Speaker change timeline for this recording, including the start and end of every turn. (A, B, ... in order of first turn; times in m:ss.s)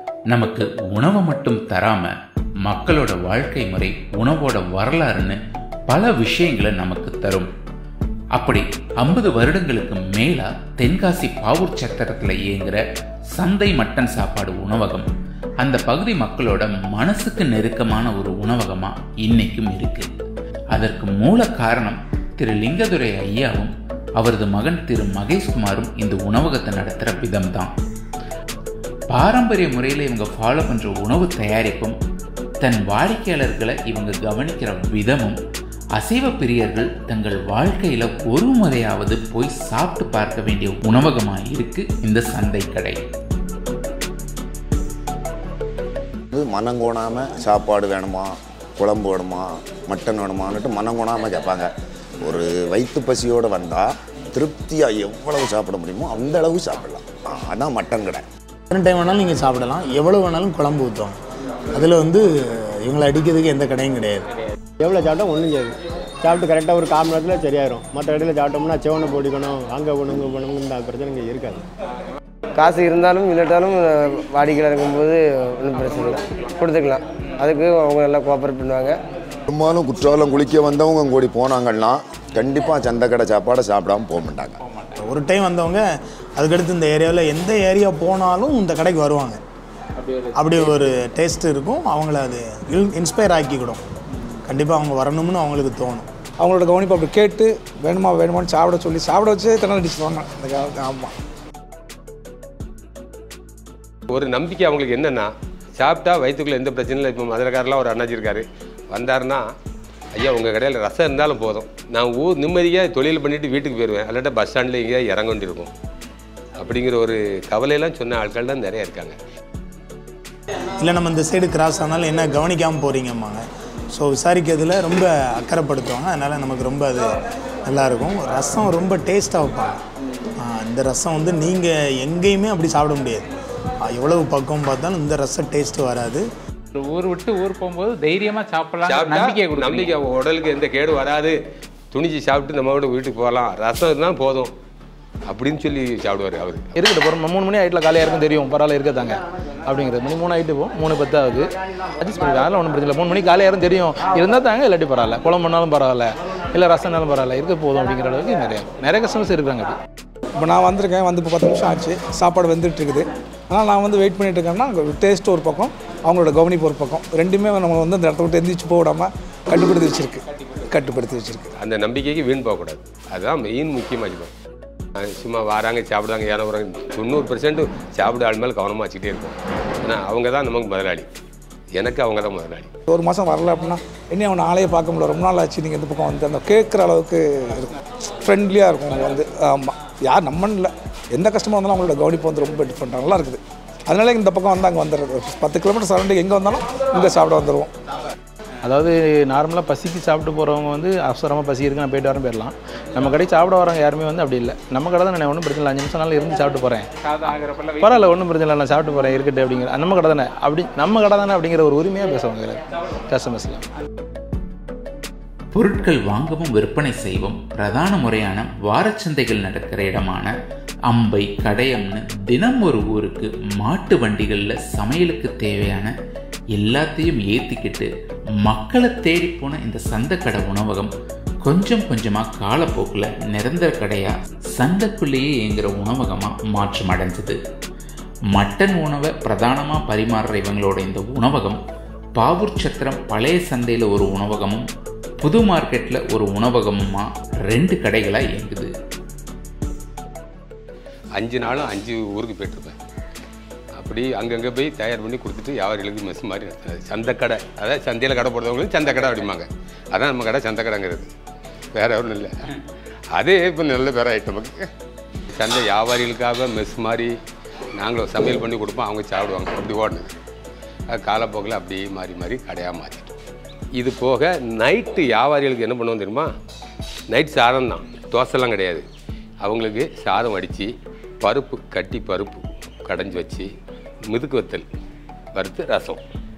0:00.3-0:02.1 A
0:02.6-0:05.4 A
0:05.9-0:07.5 A
0:08.4-0:12.8 A
0:13.4-0:15.1 A
0:15.6-0:20.1 A
0:20.7-0:27.7 A
0:29.1-0:32.0 A
0:32.6-0:35.4 A
0:36.0-0:43.0 A
0:46.3-0:51.7 B
0:52.2-0:58.2 B
0:58.7-1:01.2 C
1:01.7-1:02.2 C
1:02.8-1:04.3 C
1:04.8-1:11.6 D
1:12.6-1:19.0 E
1:19.5-1:24.6 B
1:25.0-1:25.8 C
1:26.4-1:29.4 C
1:30.0-1:30.7 F
1:30.4-1:33.8 C
1:34.5-1:36.1 C
1:36.4-1:41.1 G
1:44.1-1:49.5 H
1:50.2-1:55.7 H
1:56.6-1:59.2 H
2:00.8-2:07.0 C
2:07.7-2:09.8 C
2:10.4-2:13.2 C
2:13.9-2:16.2 C
2:16.7-2:19.9 F
2:18.8-2:21.4 H
2:21.9-2:24.5 H
2:25.3-2:26.7 H
2:26.8-2:39.8 I
2:40.4-2:51.5 G
2:51.6-2:54.3 H
2:55.0-3:01.1 H
3:01.8-3:02.7 H
3:02.9-3:07.7 G
3:08.2-3:17.7 G
3:18.6-3:26.9 I
3:27.0-3:28.1 F
3:27.8-3:33.6 I
3:35.5-3:40.3 A
3:40.9-3:45.9 A
3:46.6-3:47.9 A
3:48.4-3:50.9 A
3:51.4-3:57.4 A
3:58.3-4:01.6 A
4:02.2-4:04.6 A
4:05.2-4:08.7 A
4:11.2-4:12.8 H
4:13.8-4:21.1 H
4:21.8-4:22.5 H
4:23.1-4:24.7 H
4:25.4-4:27.2 H
4:27.8-4:30.2 H
4:30.9-4:33.1 H
4:33.8-4:36.3 H
4:37.1-4:38.8 H
4:39.4-4:43.5 H
4:44.1-4:44.7 H
4:45.4-4:46.0 H